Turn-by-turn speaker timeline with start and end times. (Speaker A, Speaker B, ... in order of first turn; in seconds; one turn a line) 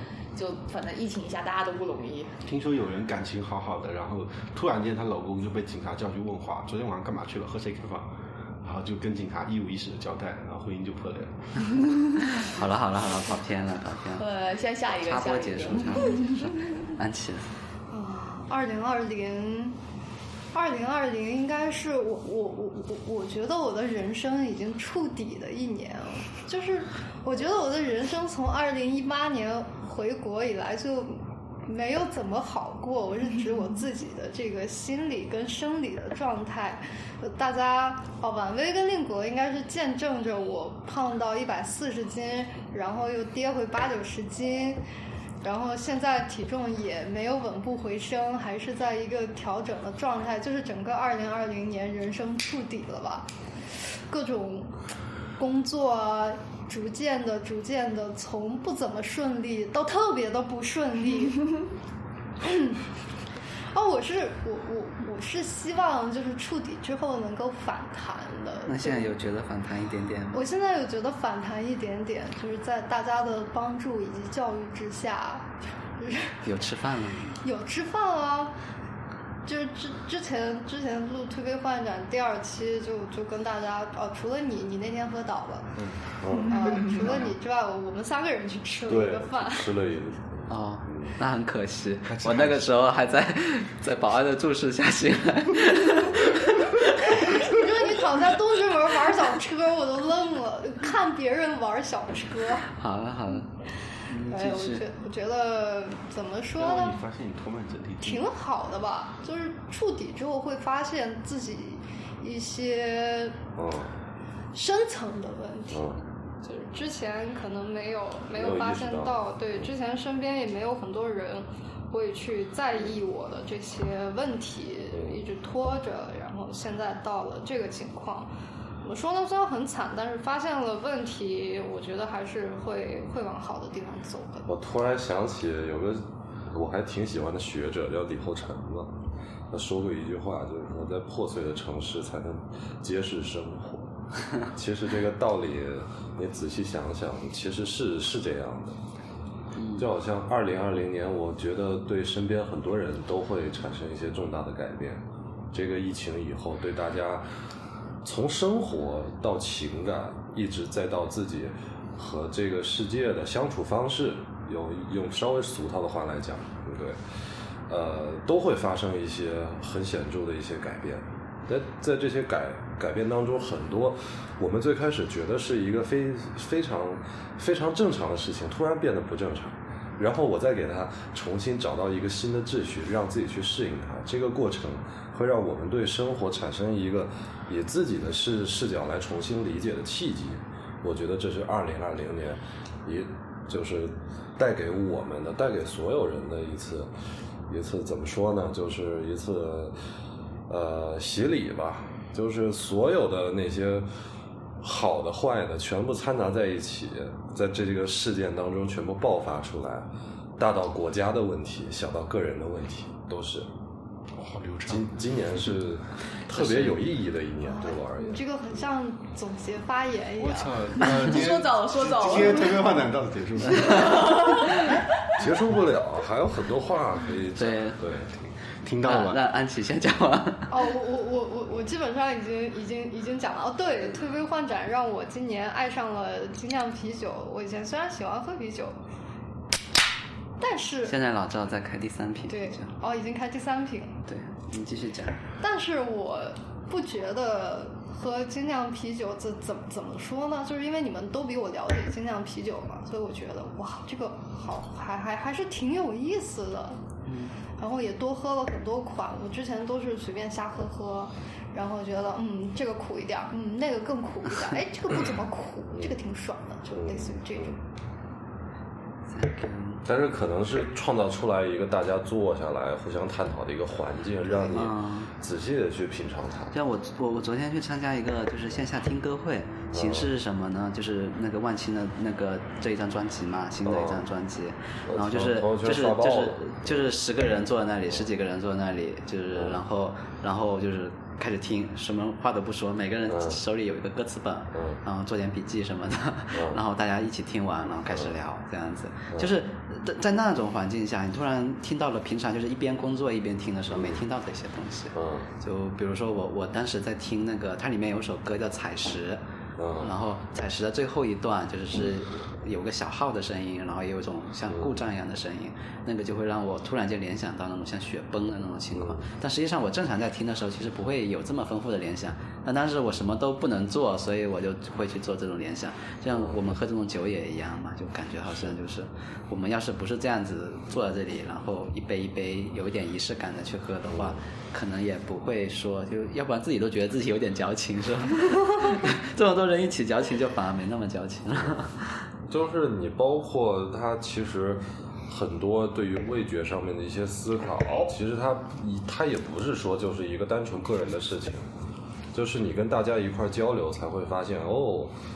Speaker A: 0.3-2.3
Speaker B: 2.4-8.1
Speaker B: 8.6-11.3
Speaker C: 12.3-14.2
Speaker A: 14.2-16.4
Speaker C: 15.0-17.4
Speaker D: 17.9-19.8
Speaker D: 20.5-44.8
Speaker D: 45.4-53.3
Speaker D: 54.1-54.7
Speaker D: 55.4-61.5
Speaker D: 62.4-62.8
Speaker D: 63.7-69.1
Speaker C: 68.7-70.4
Speaker D: 70.3-76.3
Speaker C: 76.4-77.4
Speaker D: 77.4-78.5
Speaker D: 79.4-85.8
Speaker E: 86.2-86.6
Speaker D: 86.5-89.7
Speaker E: 88.9-91.2
Speaker C: 90.5-97.3
Speaker B: 92.0-92.7
Speaker D: 97.1-102.7
Speaker C: 102.7-103.5
Speaker C: 104.1-104.8
Speaker D: 104.2-107.0
Speaker B: 106.6-108.2
Speaker D: 108.0-113.4
Speaker E: 113.5-113.9
Speaker D: 114.5-128.3
Speaker E: 115.7-116.0
Speaker E: 118.3-119.7
Speaker E: 124.9-125.2
Speaker D: 128.8-134.5
Speaker E: 134.5-138.9
Speaker E: 139.5-143.9
Speaker E: 144.5-148.8
Speaker C: 149.6-149.8
Speaker E: 149.8-157.2
Speaker E: 158.0-167.0
Speaker E: 167.7-196.9
Speaker E: 197.5-199.7
Speaker E: 200.5-203.9
Speaker E: 204.6-213.5
Speaker B: 214.2-214.8
Speaker E: 214.7-218.2
Speaker C: 216.3-216.8
Speaker D: 217.4-220.8
Speaker B: 220.2-224.4
Speaker A: 221.0-222.8
Speaker C: 223.6-224.7
Speaker A: 223.7-224.7
Speaker E: 225.2-228.1
Speaker C: 227.3-227.8
Speaker B: 228.6-229.2
Speaker C: 228.8-230.6
Speaker D: 230.5-238.8
Speaker D: 240.4-240.9
Speaker C: 240.8-242.7
Speaker D: 242.3-244.0
Speaker C: 244.1-245.2
Speaker D: 245.4-256.8
Speaker C: 257.1-257.3
Speaker D: 257.6-267.6
Speaker E: 266.7-267.6
Speaker C: 269.1-269.8
Speaker E: 269.8-276.5
Speaker D: 274.3-274.5
Speaker C: 274.5-275.1
Speaker C: 276.5-309.2
Speaker E: 279.7-280.1
Speaker E: 283.6-284.0
Speaker E: 284.9-286.9
Speaker E: 293.1-293.4
Speaker E: 294.5-294.8
Speaker E: 296.3-296.6
Speaker E: 304.9-305.3
Speaker E: 309.6-309.9
Speaker C: 309.8-342.1
Speaker E: 318.7-319.0
Speaker E: 333.9-334.2
Speaker E: 342.3-351.5
Speaker E: 352.1-354.9